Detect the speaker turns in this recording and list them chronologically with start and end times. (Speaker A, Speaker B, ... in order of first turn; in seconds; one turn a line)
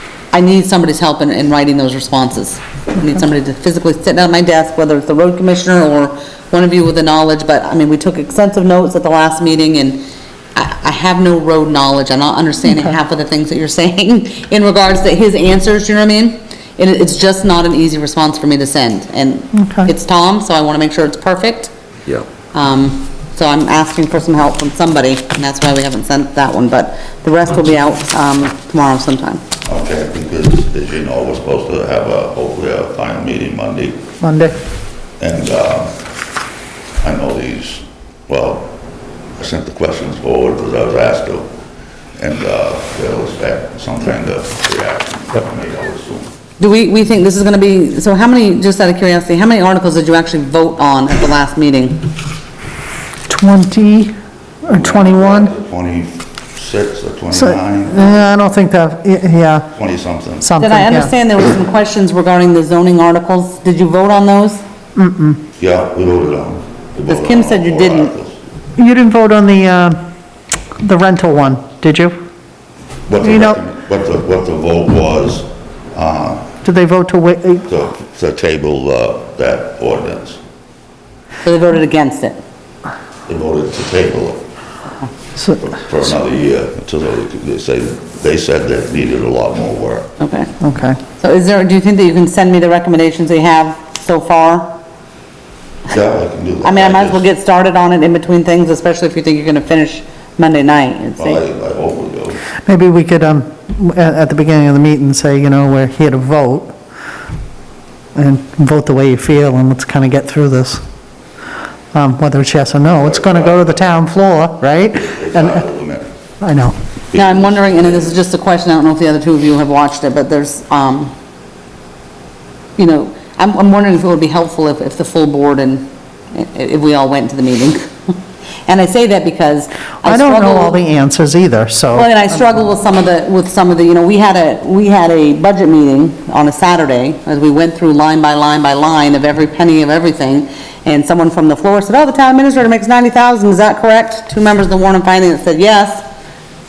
Speaker A: 0.3-10.0
Speaker A: 10.6-21.7
Speaker B: 19.5-19.9
Speaker A: 22.5-29.4
Speaker C: 29.7-34.0
Speaker B: 34.2-34.6
Speaker C: 35.2-35.9
Speaker C: 37.0-38.7
Speaker C: 39.4-41.5
Speaker C: 42.2-46.3
Speaker A: 46.6-52.0
Speaker B: 53.3-55.5
Speaker C: 54.7-58.1
Speaker B: 57.3-59.7
Speaker C: 59.8-60.5
Speaker B: 60.4-61.1
Speaker A: 60.6-64.6
Speaker B: 65.0-65.4
Speaker C: 65.6-68.4
Speaker A: 67.1-68.1
Speaker B: 68.8-70.0
Speaker B: 70.8-72.1
Speaker C: 73.1-76.5
Speaker B: 73.2-73.6
Speaker B: 76.6-77.7
Speaker C: 77.7-80.4
Speaker A: 81.4-82.4
Speaker C: 83.3-84.4
Speaker B: 85.4-85.8
Speaker C: 85.6-90.1
Speaker A: 90.2-90.5
Speaker B: 90.6-91.0
Speaker A: 91.2-94.7
Speaker C: 95.9-97.3
Speaker A: 96.6-101.4
Speaker C: 101.2-102.4
Speaker B: 102.7-106.7
Speaker B: 108.2-110.8
Speaker B: 111.9-115.6
Speaker C: 113.0-113.8
Speaker C: 114.9-116.1
Speaker B: 116.4-116.8
Speaker C: 117.1-118.2
Speaker A: 117.1-121.1
Speaker A: 122.8-128.2
Speaker A: 128.7-130.8
Speaker B: 130.0-132.2
Speaker A: 131.9-146.1